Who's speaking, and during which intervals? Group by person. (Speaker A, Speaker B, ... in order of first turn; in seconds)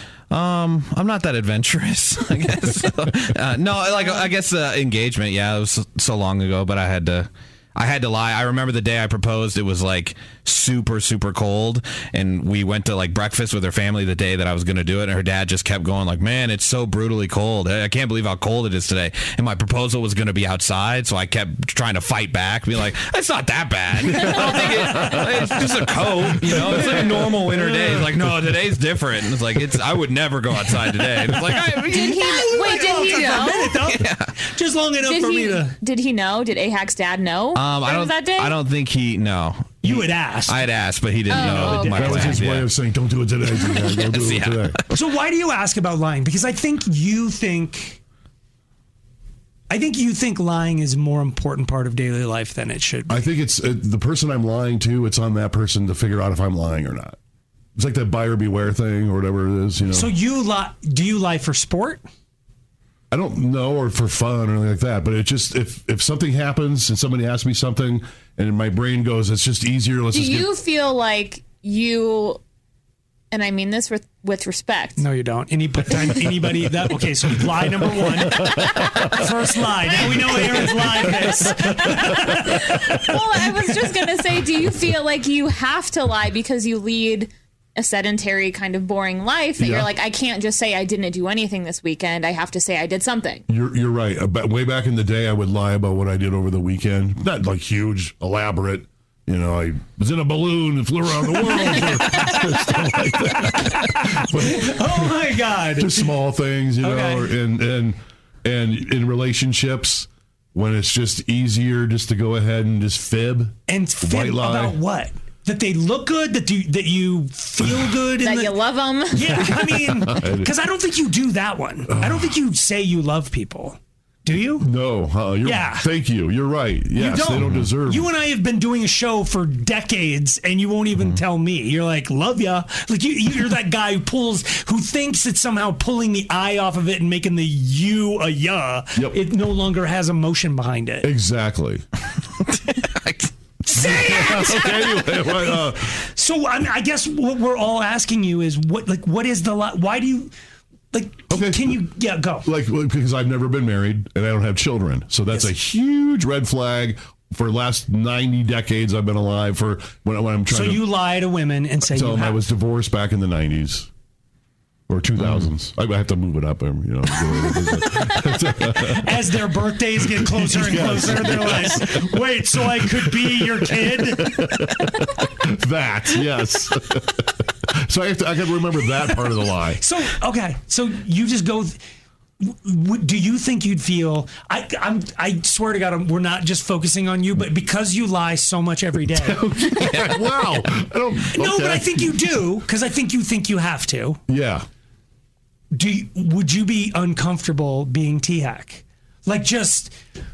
Speaker A: 0.3-32.2, 33.7-34.3, 37.5-42.7, 43.6-44.8, 127.4-127.7, 142.4-145.5, 165.2-165.5, 189.7-190.3
Speaker B: 3.9-4.3, 31.9-33.7, 35.0-38.5, 41.3-42.1, 70.1-72.4, 73.3-75.0, 78.8-79.0, 79.8-93.5, 118.2-119.5
Speaker C: 24.3-25.2, 26.4-27.7, 31.5-35.8, 39.8-40.6, 41.3-42.5, 44.9-48.0, 49.7-53.3, 59.9-62.0, 75.0-83.1, 101.4-106.1, 106.8-107.3, 113.7-124.7, 125.4-125.9, 127.0-141.1, 143.7-144.9, 146.0-150.3, 150.9-152.5, 160.5-162.5, 168.6-174.7, 179.8-181.8, 182.4-189.4, 191.3-194.2, 195.7-199.9
Speaker D: 24.9-25.4, 26.3-28.1, 41.8-44.8, 53.1-57.2, 57.8-60.1, 63.1-70.5, 89.6-89.9, 93.5-105.2, 105.8-114.8, 119.8-120.5, 121.9-122.4, 124.6-128.1, 141.0-141.8, 143.7-146.0, 151.3-151.8, 152.4-160.8, 161.9-163.9, 164.9-169.3, 170.0-179.8, 189.2-192.2, 194.3-194.7